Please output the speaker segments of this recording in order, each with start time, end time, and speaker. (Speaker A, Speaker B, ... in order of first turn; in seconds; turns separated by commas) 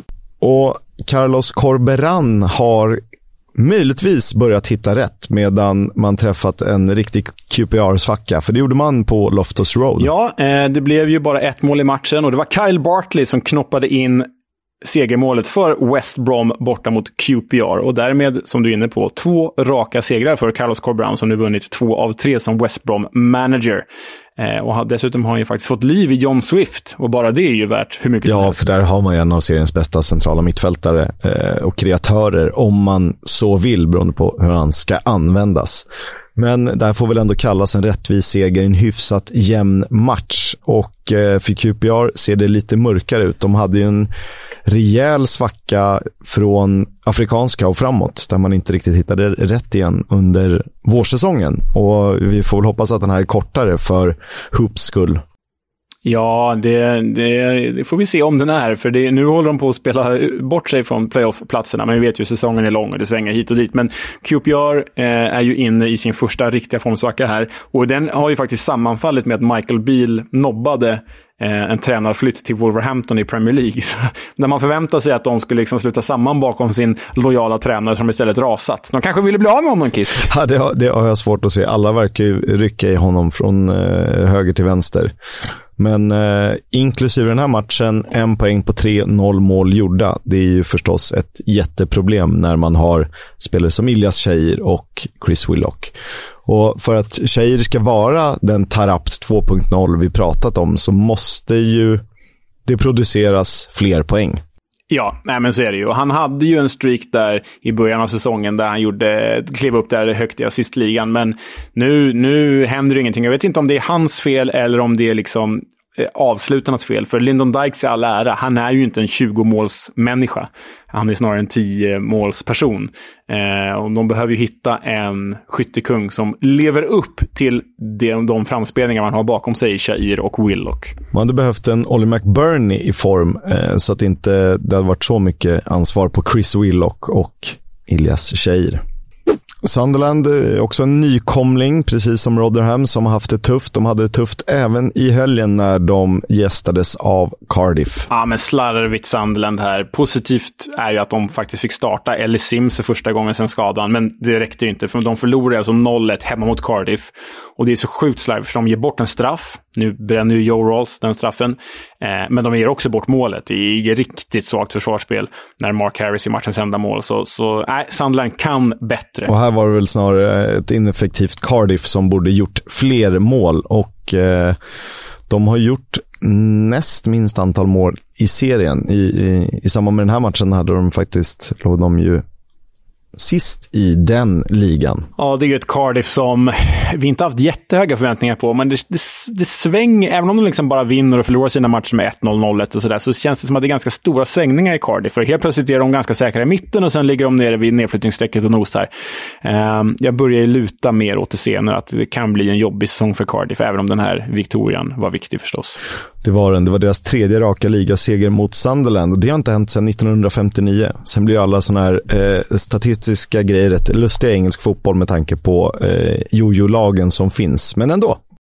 Speaker A: 0.4-3.0, Speaker A: 3.6-10.1, Speaker B: 10.0-14.3, Speaker B: 14.8-23.9, Speaker B: 24.4-28.6, Speaker A: 28.2-44.1, Speaker A: 44.7-55.2, Speaker B: 56.0-80.3, Speaker A: 80.2-85.1, Speaker A: 85.8-95.9, Speaker A: 96.5-102.0, Speaker A: 102.7-104.4, Speaker B: 104.9-131.0, Speaker A: 131.1-138.8, Speaker A: 139.6-148.1, Speaker B: 148.1-169.3, Speaker A: 169.3-174.6, Speaker A: 175.3-182.2, Speaker A: 183.2-185.1, Speaker B: 185.2-198.9, Speaker B: 199.4-205.8, Speaker A: 206.2-218.2